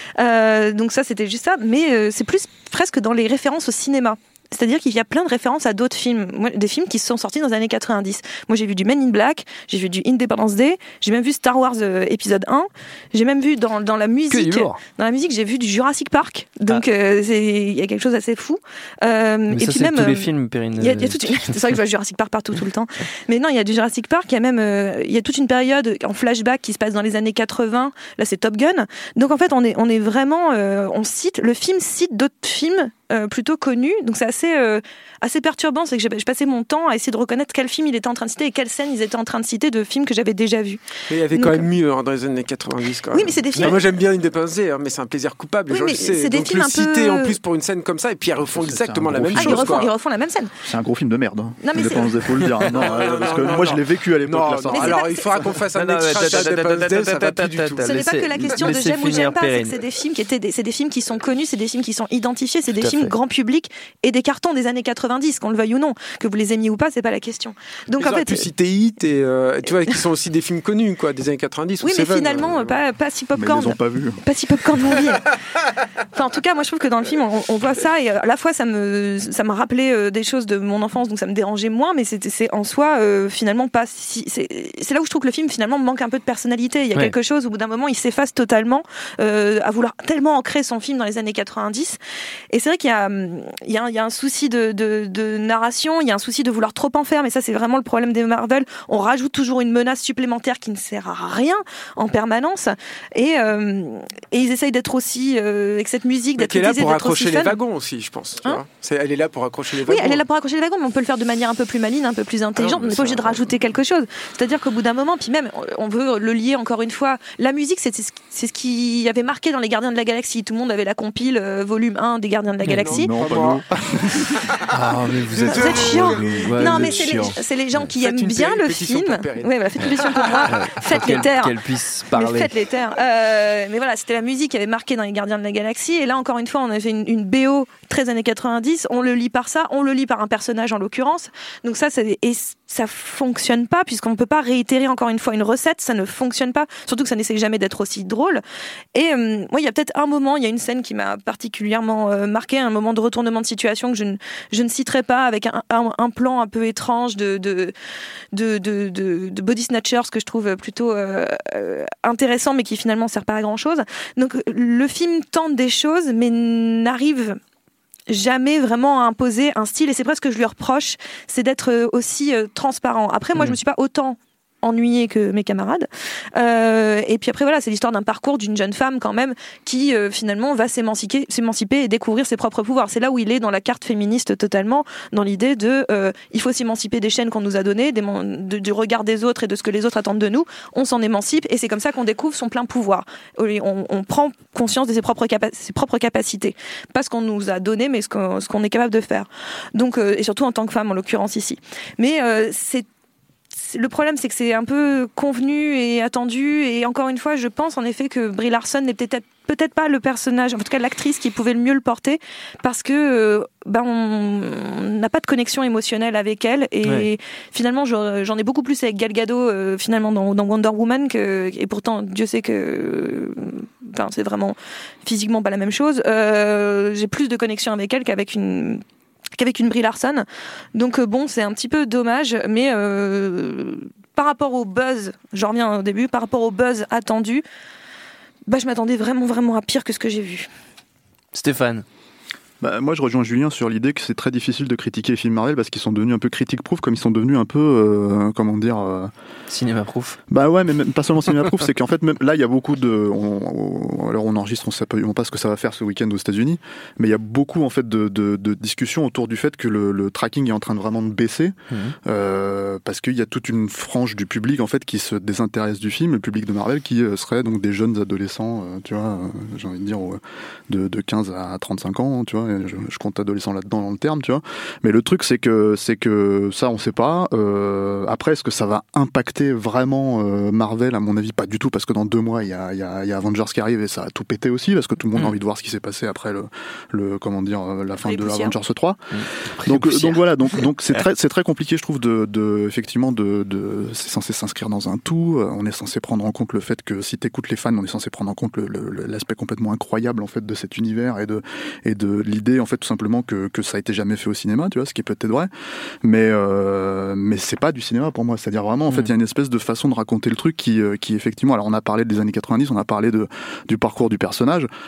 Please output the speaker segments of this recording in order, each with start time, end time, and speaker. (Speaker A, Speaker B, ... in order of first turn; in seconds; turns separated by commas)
Speaker A: 0.2-41.6, Speaker B: 14.3-14.8, Speaker B: 19.5-21.8, Speaker C: 41.1-49.9, Speaker A: 43.1-43.8, Speaker A: 45.7-47.4, Speaker D: 48.5-49.9, Speaker A: 49.4-50.5, Speaker D: 50.6-55.0, Speaker A: 51.6-52.2, Speaker C: 52.7-57.9, Speaker A: 54.7-55.3, Speaker B: 55.7-59.8, Speaker A: 57.8-68.5, Speaker B: 62.8-63.1, Speaker C: 68.0-72.8, Speaker A: 71.8-75.3, Speaker D: 73.3-74.2, Speaker A: 76.1-92.0, Speaker A: 92.5-107.6, Speaker C: 106.4-110.2, Speaker A: 109.9-123.1, Speaker C: 112.6-113.5, Speaker B: 122.6-123.0, Speaker C: 122.8-123.6, Speaker D: 123.0-124.3, Speaker C: 124.3-127.0, Speaker B: 124.7-127.4, Speaker A: 125.5-131.6, Speaker D: 126.0-126.7, Speaker C: 127.8-131.3, Speaker B: 130.5-132.5, Speaker A: 132.1-148.4, Speaker A: 148.9-157.7, Speaker A: 158.3-167.4, Speaker A: 168.1-202.9, Speaker A: 203.5-228.8, Speaker A: 229.4-237.4, Speaker A: 238.5-240.5, Speaker B: 241.3-241.8, Speaker D: 242.6-249.1, Speaker B: 249.5-250.2, Speaker D: 250.3-305.5, Speaker B: 261.7-261.9, Speaker A: 288.0-288.5, Speaker B: 289.1-290.2, Speaker D: 306.0-314.7